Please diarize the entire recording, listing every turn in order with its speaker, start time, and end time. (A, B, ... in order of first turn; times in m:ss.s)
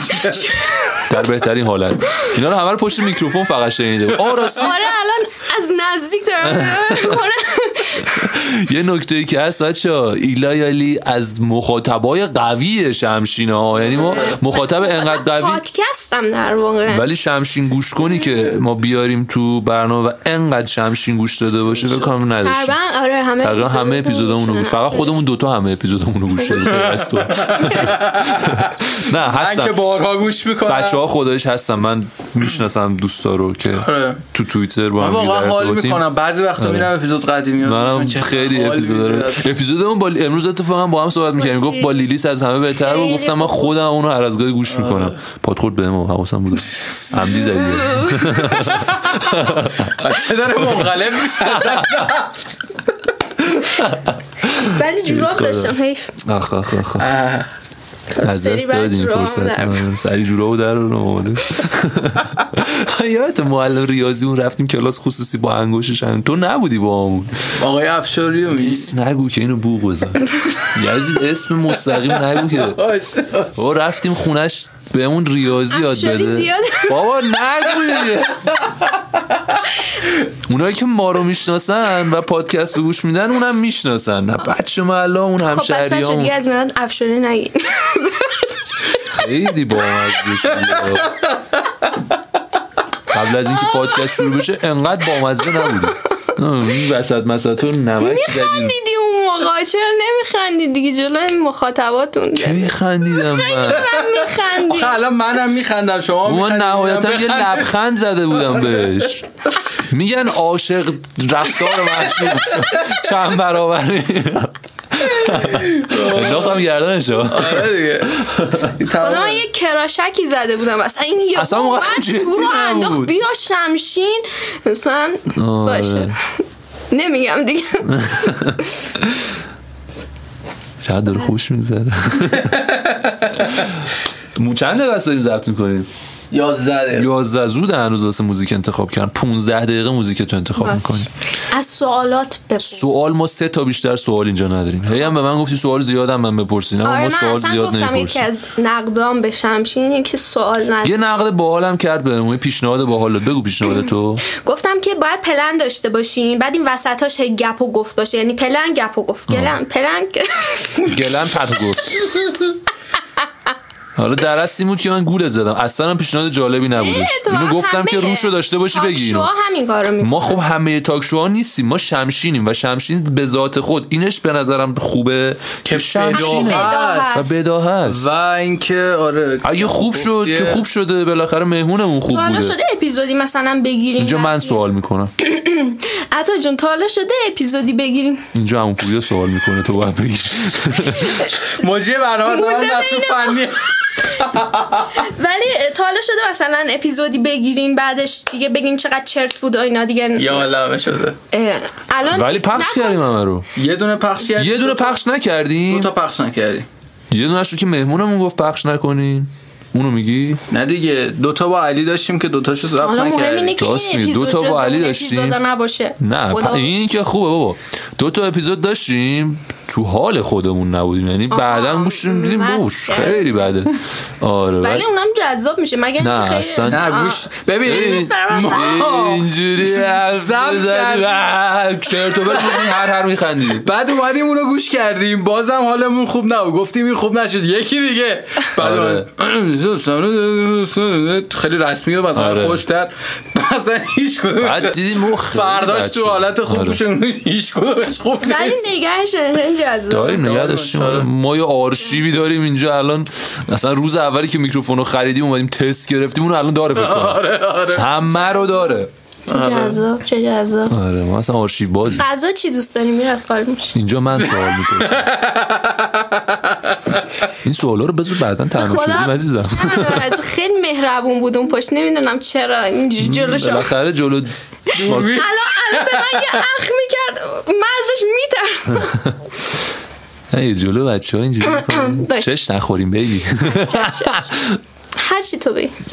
0:00.1-0:00.5 A
0:00.2-0:01.0 B
0:01.1-0:04.9 C
0:04.6-0:08.3 B
0:06.4-0:07.2 C
0:08.1-0:15.6 C
0:13.9-0:14.3 A
0:14.2-0:17.1 B
0:16.9-0:22.8 C
0:22.4-0:25.2 B
0:23.4-0:29.8 C
0:26.7-0:31.0 A
0:30.6-0:36.0 C
0:33.7-0:34.2 A
0:35.0-0:39.5 A
0:36.6-0:36.9 C
0:37.6-0:50.1 C
0:41.4-0:42.0 B
0:42.8-0:43.7 B
0:44.7-0:45.1 A
0:47.7-0:48.3 B
0:48.6-0:49.0 A
0:49.8-0:52.5 A
0:51.4-0:52.1 C
0:53.4-0:57.1 C
0:54.6-0:56.2 B
0:57.0-0:57.5 A
0:58.1-0:59.8 B
0:58.2-1:07.6 C
1:07.6-1:08.9 A
1:08.6-1:12.8 C
1:12.6-1:13.6 A
1:13.5-1:18.6 C
1:15.7-1:17.0 B
1:20.4-1:26.3 C
1:25.4-1:29.0 B
1:29.1-1:31.2 C
1:33.1-1:38.7 C
1:33.6-1:33.9 B
1:38.0-1:45.0 B
1:42.3-1:43.9 C
1:44.6-1:47.7 A
1:46.2-1:58.7 C
1:55.1-1:56.6 A
1:57.2-1:59.4 A
1:59.0-2:06.3 B
2:01.3-2:03.2 C
2:05.3-2:06.2 C
2:06.9-2:08.7 B
2:07.9-2:09.3 C
2:10.8-2:12.6 C
2:12.3-2:13.4 A
2:14.3-2:15.9 C
2:16.3-2:17.1 A
2:16.9-2:21.1 C
2:21.4-2:22.9 B
2:22.6-2:28.3 C
2:26.8-2:31.0 B
2:30.8-2:34.2 C
2:34.2-2:41.0 B
2:39.3-2:39.5 C
2:40.9-2:42.1 C
2:44.0-2:49.3 C
2:46.8-2:50.4 B
2:50.0-2:58.1 C
2:55.6-2:57.3 A
2:56.1-2:57.3 B
2:57.8-3:00.6 A
2:59.4-3:02.6 C
3:02.1-3:04.6 B
3:04.0-3:05.1 C
3:05.2-3:08.3 B
3:08.3-3:11.2 C
3:11.4-3:14.9 A
3:12.3-3:14.1 B
3:15.0-3:20.5 B
3:20.2-3:21.2 A
3:21.3-3:23.0 B
3:22.1-3:23.5 C
3:23.5-3:25.0 A
3:24.4-3:25.9 C
3:25.7-3:26.7 A
3:27.1-3:30.4 C
3:30.5-3:33.6 A
3:32.8-3:36.7 B
3:33.6-3:35.4 C
3:36.0-3:44.8 C
3:41.3-3:43.6 B
3:44.6-3:48.8 B
3:46.0-3:46.9 C
3:46.7-3:51.3 A
3:47.6-3:53.7 C
3:52.1-3:52.8 A
3:53.6-4:08.6 A
3:58.6-3:59.1 C
4:02.1-4:02.6 C
4:04.4-4:06.8 C
4:08.2-4:10.2 B
4:09.9-4:18.9 C
4:10.2-4:11.1 A
4:16.7-4:17.9 A
4:19.3-4:19.8 A
4:19.3-4:20.8 B
4:20.7-4:22.0 C
4:21.9-4:23.8 B
4:23.7-4:25.1 C
4:24.4-4:26.8 A
4:27.4-4:30.2 C
4:28.6-4:33.7 B
4:33.0-4:35.3 C
4:34.7-4:36.4 A
4:34.8-4:39.2 B
4:40.3-4:44.6 C
4:41.5-4:42.3 B
4:43.5-4:44.3 B
4:45.0-4:45.7 B